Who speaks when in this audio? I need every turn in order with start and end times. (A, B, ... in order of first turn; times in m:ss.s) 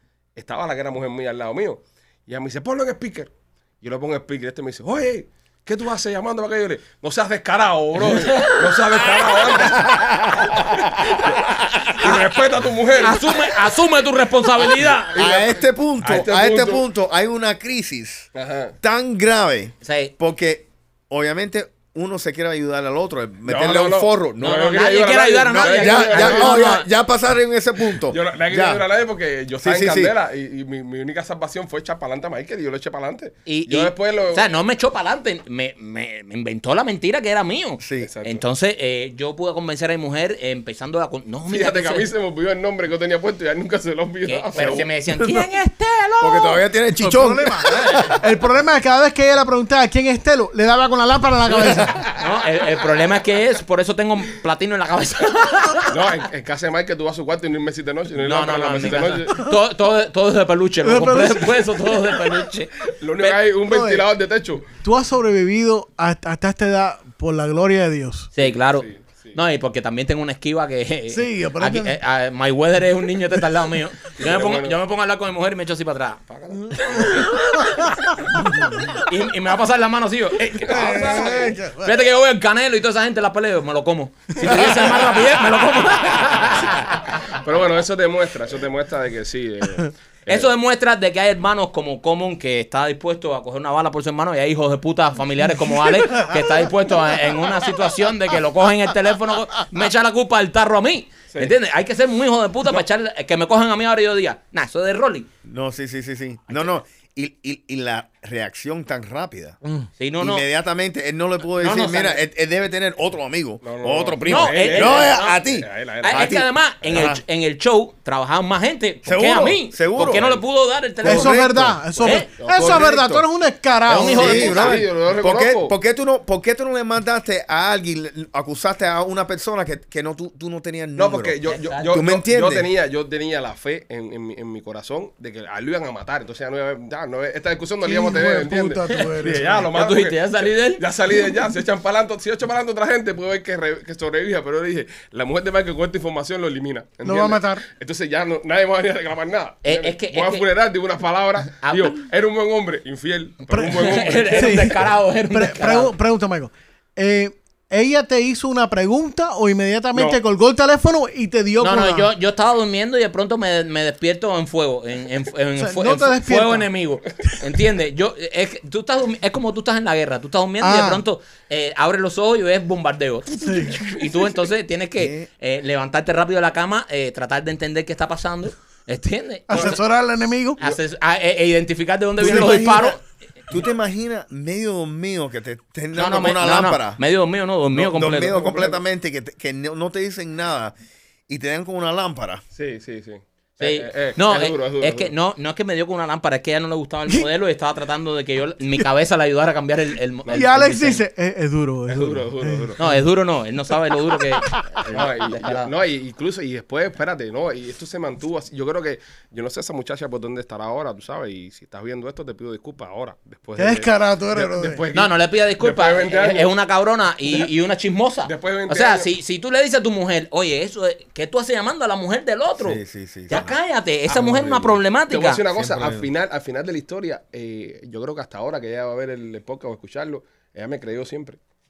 0:00.4-0:13.6 A
0:08.0-0:09.4 B
0:11.9-0:12.2 B
0:12.9-0:15.4 B
0:15.2-0:18.3 C
0:16.0-0:16.8 A
0:18.4-0:18.8 A
0:18.8-0:24.6 C
0:19.8-0:20.1 B
0:23.4-0:26.7 A
0:24.4-0:26.9 B
0:25.5-0:28.9 C
0:28.0-0:34.4 A
0:29.6-0:30.2 C
0:33.5-0:42.1 B
0:37.8-0:38.1 C
0:38.0-0:38.4 A
0:41.5-0:44.9 A
0:44.3-0:46.6 B
0:46.2-0:48.2 C
0:46.2-0:46.6 A
0:47.0-0:52.0 D
0:47.7-0:48.2 B
0:52.0-0:56.0 B
0:55.9-0:59.5 A
0:58.2-1:03.4 B
1:00.8-1:01.7 D
1:02.9-1:04.7 A
1:03.7-1:04.1 D
1:04.8-1:08.3 D
1:08.4-1:16.2 B
1:08.4-1:09.4 A
1:11.1-1:12.0 D
1:14.2-1:14.8 A
1:16.3-1:17.4 A
1:16.7-1:19.0 D
1:16.9-1:17.4 B
1:18.9-1:27.2 B
1:20.6-1:21.6 A
1:20.7-1:21.9 D
1:27.2-1:30.5 A
1:30.3-1:45.3 B
1:45.4-1:49.6 C
1:50.0-1:50.4 B
1:50.2-1:57.2 C
1:51.6-1:52.2 B
1:53.6-1:57.1 A
1:54.2-1:55.4 B
1:56.0-2:01.4 B
1:59.0-2:00.3 C
2:00.0-2:00.4 A
2:01.0-2:01.9 C
2:01.0-2:04.4 D
2:02.0-2:02.3 B
2:02.1-2:03.3 A
2:03.9-2:04.8 B
2:04.0-2:05.8 A
2:04.1-2:12.7 C
2:11.0-2:34.8 A
2:11.4-2:12.0 B
2:17.8-2:19.7 D
2:19.7-2:20.8 B
2:27.0-2:27.7 D
2:29.6-2:30.5 B
2:31.5-2:32.0 B
2:33.5-2:33.8 D
2:33.7-2:35.9 B
2:34.3-2:42.1 D
2:39.9-2:40.2 A
2:41.6-2:59.8 B
2:45.6-2:46.7 D
2:50.6-2:51.0 D
2:53.4-2:53.8 D
2:55.0-2:55.3 C
2:59.5-3:00.6 D
2:59.5-2:59.8 A
3:00.6-3:03.0 B
3:02.2-3:03.0 C
3:03.5-3:07.0 C
3:06.0-3:08.8 B
3:07.8-3:10.8 C
3:11.3-3:12.4 C
3:12.6-3:15.1 A
3:13.6-3:21.0 B
3:20.3-3:23.0 D
3:21.9-3:22.8 A
3:22.8-3:25.7 B
3:24.4-3:24.8 D
3:24.9-3:36.5 A
3:33.6-3:34.8 D
3:34.9-3:45.4 B
3:38.2-3:39.1 A
3:42.6-3:43.6 C
3:44.1-3:44.8 C
3:45.1-3:51.4 A
3:45.5-3:46.1 C